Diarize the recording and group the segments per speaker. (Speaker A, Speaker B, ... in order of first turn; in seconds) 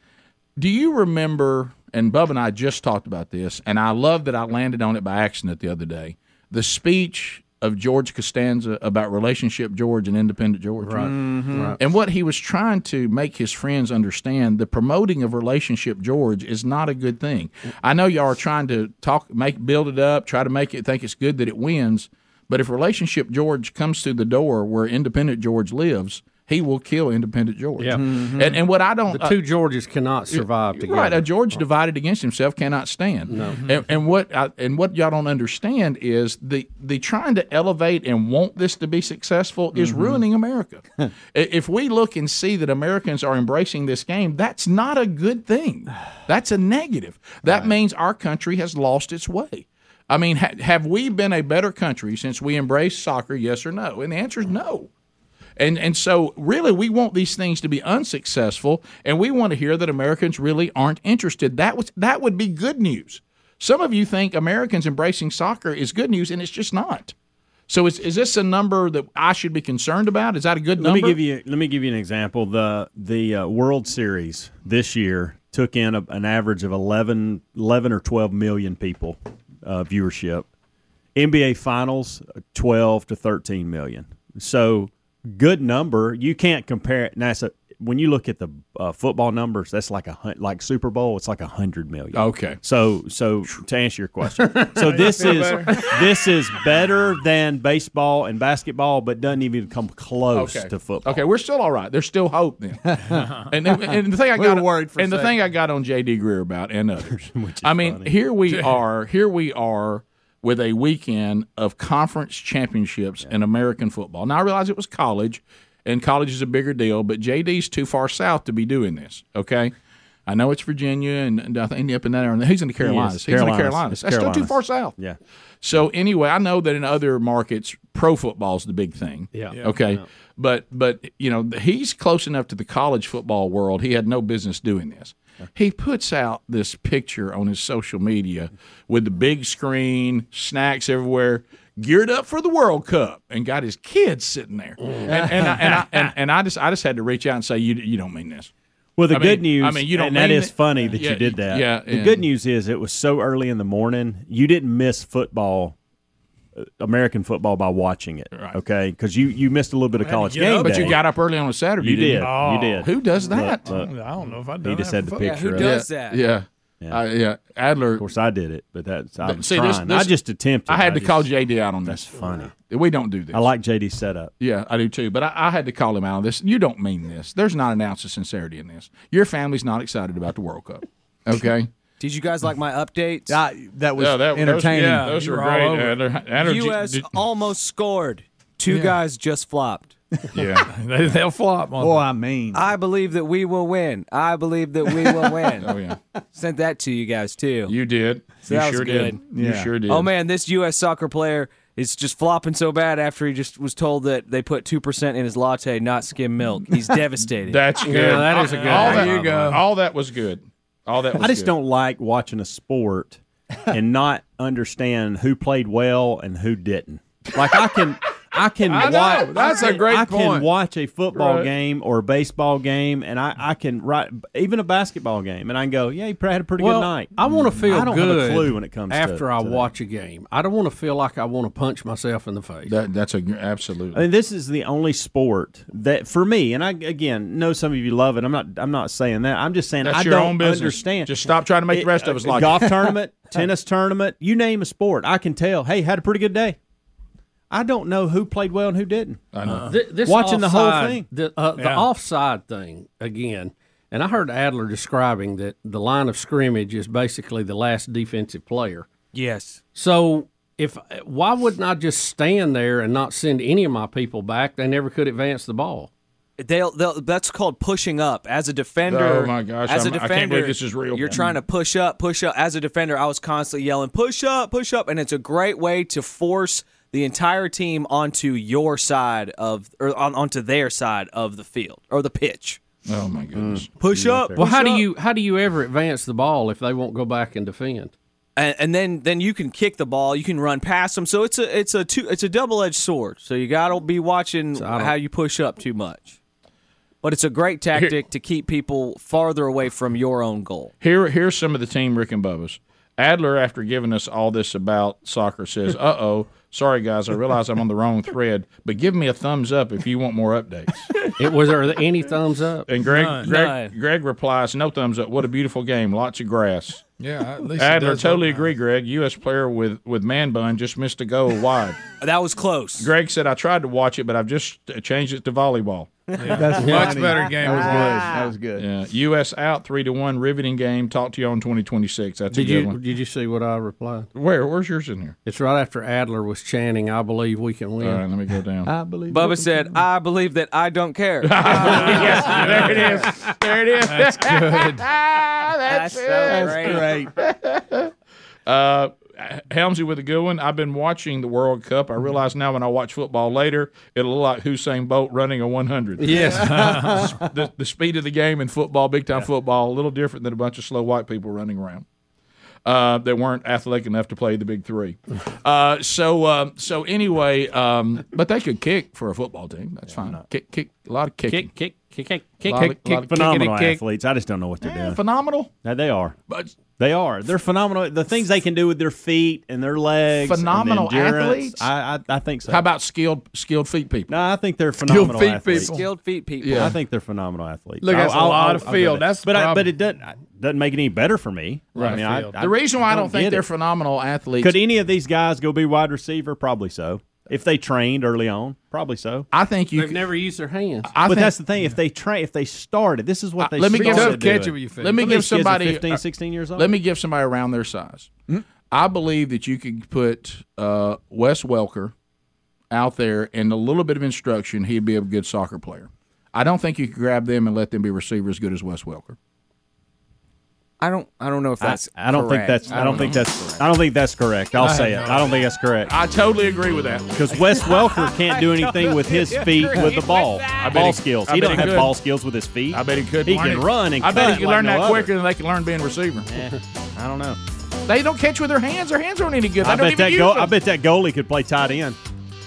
Speaker A: 0.6-11.2, 11.8-29.4, 30.3-54.9, 55.6-67.1, 67.7-71.2, 92.1-92.6, 100.3-119.7, 120.2-124.9, 125.6-148.5, 149.1-152.2, 160.6-163.6, 165.6-168.0, 169.2-172.1, 172.7-173.4, 174.4-181.7, 184.0-187.2, 190.3-190.7, 195.6-196.0, 197.7-200.1, 207.4-211.5, 232.7-234.0, 239.8-242.9, 249.3-249.7, 268.8-271.4, 282.9-283.7, 300.8-310.9, 312.7-316.8, 317.6-321.8, 322.8-325.9, 328.6-332.8, 334.1-335.1, 337.8-338.7, 341.2-347.9, 348.4-361.8, 362.6-371.5, 372.4-373.4, 374.6-375.5, 380.2-381.7, 382.5-384.1, 386.4-386.8, 391.8-394.6, 399.3-400.1, 400.8-401.4, 403.4-406.0, 406.5-408.1, 408.7-411.9, 412.7-419.1, 422.7-423.2, 425.9-427.1, 430.6-431.9, 432.7-436.3, 437.9-440.5
Speaker B: 10.8-11.8, 27.8-28.0, 29.1-31.3, 33.3-33.6, 129.3-130.0, 144.8-145.1, 207.8-209.4, 226.6-232.7, 249.7-258.9, 259.7-265.9, 284.3-287.9, 294.5-294.9, 311.2-312.7, 326.6-327.0, 332.3-334.1, 335.2-338.1, 356.0-356.6, 371.3-372.5, 399.7-400.9
Speaker C: 11.3-11.6, 28.0-28.6, 39.8-40.1, 102.9-103.4, 104.3-105.3, 145.1-145.8, 183.3-185.1, 191.8-192.7, 195.1-195.4, 199.3-199.7, 326.2-328.6, 338.6-339.8, 346.2-347.1, 356.4-357.3
Speaker D: 70.8-80.5, 81.1-101.2, 107.1-108.1, 122.8-125.2, 149.0-155.8, 156.6-161.0, 161.8-163.9, 164.6-165.8, 168.0-171.3, 171.8-172.5, 173.3-174.3, 211.2-229.7, 233.9-246.6, 247.5-251.1, 283.3-284.5, 373.0-375.0, 375.6-376.1, 376.8-382.7, 384.1-385.7, 386.4-393.4, 394.4-399.3, 401.0-406.8, 421.6-425.9, 427.1-435.1, 436.3-437.4, 439.6-442.0
Speaker E: 94.8-95.9, 160.0-161.0, 162.2-162.9, 163.6-165.4, 184.7-186.0, 188.7-189.0, 190.6-192.1, 208.3-209.6, 218.7-220.5, 249.4-249.8, 251.6-251.9, 312.8-313.3, 317.0-318.5, 326.2-328.2, 341.7-342.7, 343.8-344.9, 356.3-357.1, 372.5-373.7, 384.9-385.9, 387.8-389.7, 391.8-392.4, 403.7-405.2, 424.6-425.4
Speaker F: 165.2-166.2, 182.0-183.4, 186.4-189.9, 192.5-195.7, 196.3-197.7, 198.4-199.2, 199.9-207.7, 259.1-259.6, 266.4-282.6, 283.8-284.9, 288.4-296.2, 297.0-300.7, 313.2-313.7, 322.0-322.9, 339.1-343.1, 345.6-347.0, 385.5-386.7, 420.8-423.6, 427.4-431.7